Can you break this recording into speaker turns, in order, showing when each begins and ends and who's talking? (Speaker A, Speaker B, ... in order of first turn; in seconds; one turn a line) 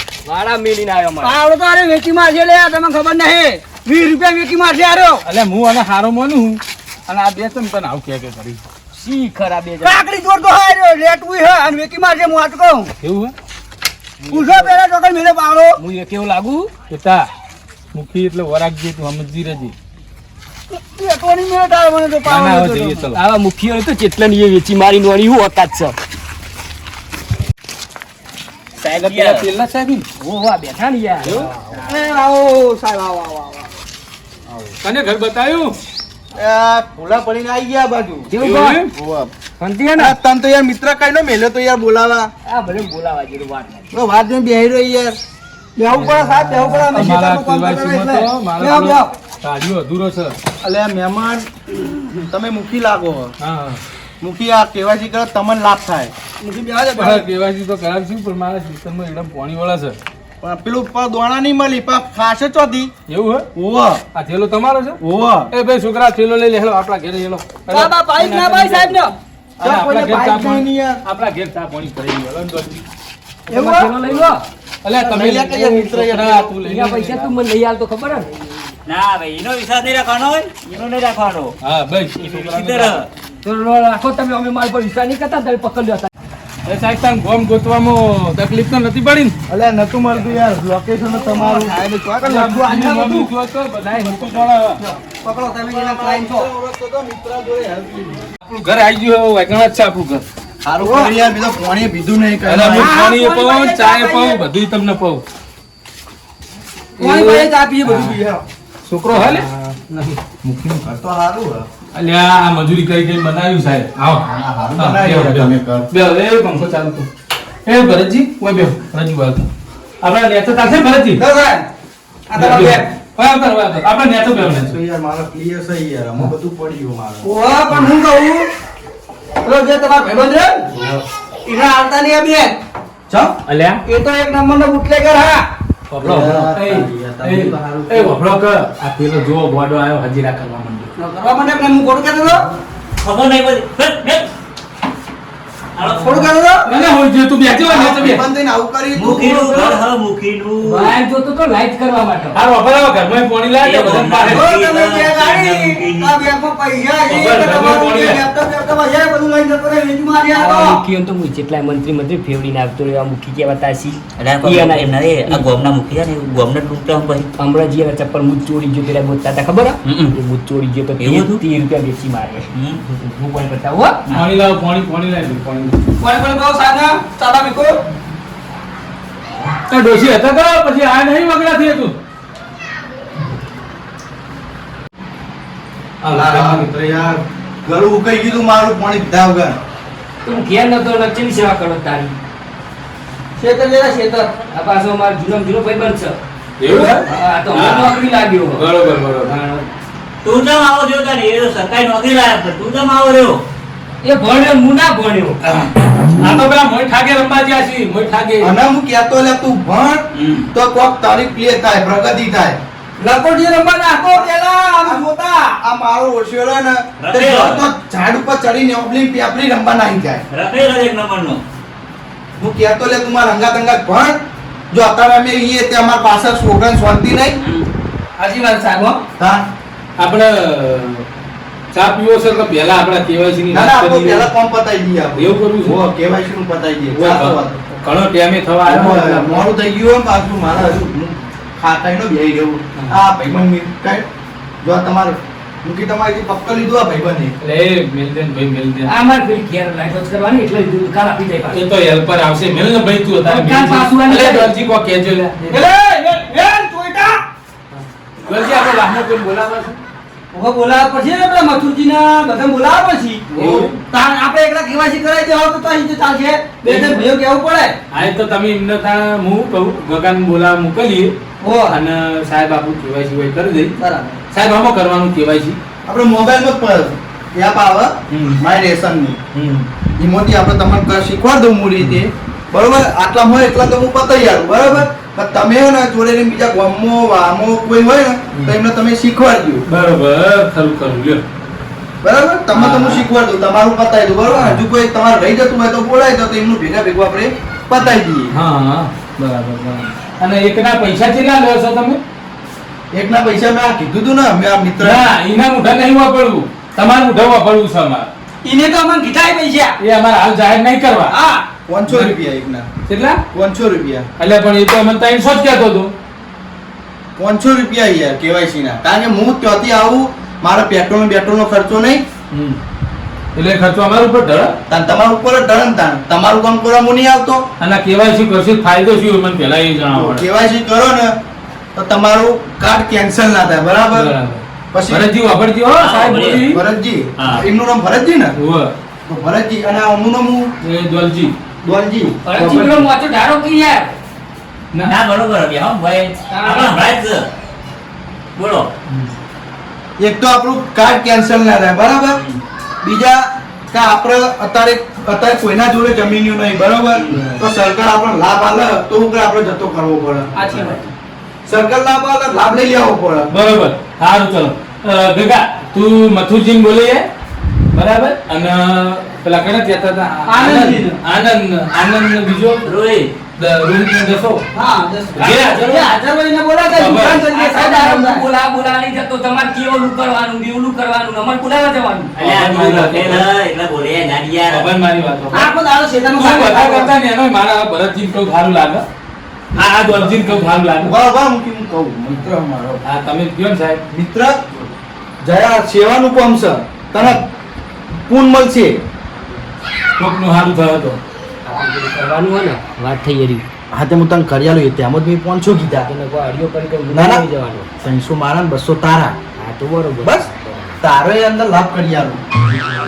Speaker A: 0.2-1.4
Speaker B: 1.2-5.2
Speaker C: 5.2-8.6
Speaker A: 8.9-10.0
Speaker B: 9.8-12.9
Speaker C: 13.0-13.3
Speaker C: 14.2-14.7
Speaker B: 14.3-15.8
Speaker A: 15.8-16.7
Speaker C: 16.9-17.3
Speaker C: 17.9-19.7
Speaker B: 20.7-23.1
Speaker C: 22.2-23.2
Speaker A: 23.1-25.9
Speaker C: 28.8-30.1
Speaker D: 28.9-29.5
Speaker A: 30.2-31.5
Speaker C: 31.2-31.5
Speaker B: 31.8-33.7
Speaker C: 34.8-35.8
Speaker E: 36.3-38.3
Speaker A: 38.3-38.8
Speaker C: 38.4-38.9
Speaker E: 38.9-39.3
Speaker A: 39.6-40.1
Speaker E: 40.0-42.3
Speaker A: 42.5-43.9
Speaker E: 43.9-45.2
Speaker B: 45.8-49.1
Speaker C: 45.9-50.4
Speaker E: 50.6-51.5
Speaker B: 51.8-52.2
Speaker E: 52.2-53.3
Speaker C: 53.4-53.8
Speaker E: 54.2-56.1
Speaker B: 56.4-57.3
Speaker C: 57.0-60.0
Speaker E: 60.4-62.9
Speaker C: 63.1-63.5
Speaker E: 63.5-64.0
Speaker C: 64.1-65.0
Speaker E: 65.0-65.5
Speaker C: 65.5-69.0
Speaker B: 67.7-69.2
Speaker E: 69.6-71.0
Speaker C: 69.6-72.8
Speaker A: 73.5-74.4
Speaker B: 73.5-73.9
Speaker C: 74.0-77.3
Speaker B: 75.1-76.2
Speaker A: 76.5-78.3
Speaker D: 78.8-81.5
Speaker C: 81.6-83.0
Speaker D: 82.2-83.1
Speaker A: 83.4-86.1
Speaker C: 86.7-89.4
Speaker E: 89.5-91.8
Speaker B: 91.1-93.3
Speaker C: 92.2-94.8
Speaker B: 94.8-96.5
Speaker E: 95.5-98.3
Speaker C: 98.4-100.2
Speaker E: 100.6-103.0
Speaker B: 100.8-101.1
Speaker C: 102.5-105.2
Speaker B: 102.7-104.4
Speaker B: 107.0-108.4
Speaker C: 107.0-108.2
Speaker C: 108.8-110.8
Speaker E: 110.8-111.7
Speaker C: 111.9-114.2
Speaker E: 114.2-115.9
Speaker C: 114.8-117.1
Speaker C: 117.7-119.5
Speaker C: 120.0-121.2
Speaker B: 121.2-121.7
Speaker B: 122.3-122.9
Speaker C: 122.3-124.8
Speaker E: 124.3-127.3
Speaker B: 127.2-128.5
Speaker B: 129.4-130.7
Speaker C: 130.7-131.0
Speaker B: 131.4-132.6
Speaker E: 133.1-133.4
Speaker C: 133.4-133.8
Speaker B: 133.9-135.4
Speaker C: 135.9-140.9
Speaker E: 136.0-138.2
Speaker B: 141.0-142.5
Speaker D: 143.0-144.3
Speaker D: 145.8-146.3
Speaker B: 146.0-146.7
Speaker C: 146.6-148.2
Speaker E: 147.6-149.8
Speaker D: 148.9-150.9
Speaker A: 150.6-152.4
Speaker C: 152.3-154.5
Speaker D: 153.6-156.2
Speaker B: 154.3-160.8
Speaker C: 157.1-158.2
Speaker A: 160.3-165.5
Speaker D: 164.2-167.3
Speaker A: 167.4-174.0
Speaker D: 169.8-170.2
Speaker D: 171.0-171.4
Speaker D: 172.5-172.8
Speaker C: 174.1-175.8
Speaker B: 176.0-177.8
Speaker C: 179.7-181.9
Speaker C: 186.0-186.7
Speaker E: 186.1-189.6
Speaker A: 190.2-192.1
Speaker B: 193.4-194.3
Speaker A: 194.5-196.2
Speaker C: 196.6-197.9
Speaker A: 196.7-198.7
Speaker C: 198.6-199.3
Speaker A: 199.2-199.7
Speaker D: 200.2-203.4
Speaker A: 204.0-205.4
Speaker C: 205.4-208.5
Speaker E: 208.4-212.6
Speaker D: 210.1-210.5
Speaker B: 213.0-215.3
Speaker E: 214.8-220.2
Speaker D: 217.0-217.6
Speaker D: 220.3-221.4
Speaker E: 222.4-227.4
Speaker B: 228.2-229.0
Speaker E: 229.2-229.4
Speaker C: 230.0-231.1
Speaker C: 231.7-234.3
Speaker E: 233.5-237.6
Speaker C: 235.2-235.8
Speaker C: 236.9-239.4
Speaker E: 238.7-244.1
Speaker E: 244.6-247.3
Speaker C: 247.4-248.9
Speaker A: 248.8-251.6
Speaker C: 251.5-255.6
Speaker A: 253.2-254.5
Speaker B: 255.5-257.2
Speaker C: 258.2-259.8
Speaker B: 260.3-267.8
Speaker C: 263.3-263.8
Speaker E: 263.4-263.7
Speaker C: 266.7-266.9
Speaker C: 267.9-271.1
Speaker B: 271.4-271.8
Speaker C: 271.7-273.7
Speaker B: 273.8-274.2
Speaker C: 274.3-275.6
Speaker E: 275.9-279.2
Speaker C: 278.1-278.4
Speaker C: 279.3-279.7
Speaker E: 280.0-289.6
Speaker C: 289.7-291.2
Speaker E: 292.0-298.3
Speaker C: 292.5-293.0
Speaker C: 294.3-294.6
Speaker C: 298.3-302.0
Speaker E: 302.9-305.1
Speaker C: 304.8-308.1
Speaker B: 308.4-309.8
Speaker C: 309.8-311.1
Speaker B: 311.1-311.4
Speaker E: 311.7-312.7
Speaker C: 311.9-312.1
Speaker C: 312.9-313.2
Speaker E: 313.3-314.1
Speaker C: 314.2-315.9
Speaker E: 317.1-322.0
Speaker C: 322.3-322.6
Speaker C: 323.3-324.6
Speaker E: 324.7-327.4
Speaker C: 327.6-330.2
Speaker E: 329.9-331.1
Speaker E: 331.7-334.1
Speaker C: 333.9-336.6
Speaker E: 334.7-335.1
Speaker D: 335.6-336.5
Speaker E: 336.5-338.3
Speaker D: 337.2-337.4
Speaker C: 338.4-338.7
Speaker E: 339.1-340.5
Speaker C: 340.6-341.3
Speaker E: 341.6-342.8
Speaker A: 342.2-343.9
Speaker D: 344.8-347.3
Speaker A: 346.3-346.8
Speaker D: 348.4-348.7
Speaker C: 348.9-349.1
Speaker E: 350.0-352.2
Speaker E: 352.8-360.8
Speaker B: 360.4-360.9
Speaker E: 361.5-363.3
Speaker C: 363.3-367.1
Speaker C: 367.7-372.7
Speaker B: 370.3-371.0
Speaker D: 372.6-373.1
Speaker C: 373.3-374.4
Speaker B: 374.5-378.2
Speaker C: 375.1-375.9
Speaker C: 376.7-377.2
Speaker A: 377.3-382.1
Speaker D: 382.2-384.7
Speaker C: 382.2-383.3
Speaker C: 384.5-385.5
Speaker B: 385.3-386.9
Speaker C: 386.1-388.8
Speaker C: 389.5-390.9
Speaker E: 389.6-392.8
Speaker C: 392.8-393.8
Speaker E: 393.9-394.4
Speaker E: 395.2-397.3
Speaker E: 397.9-398.8
Speaker C: 400.0-401.0
Speaker A: 401.4-403.4
Speaker E: 403.7-405.9
Speaker A: 405.9-407.7
Speaker E: 406.9-407.2
Speaker E: 407.8-409.2
Speaker A: 409.4-410.7
Speaker E: 410.0-410.3
Speaker E: 410.8-412.2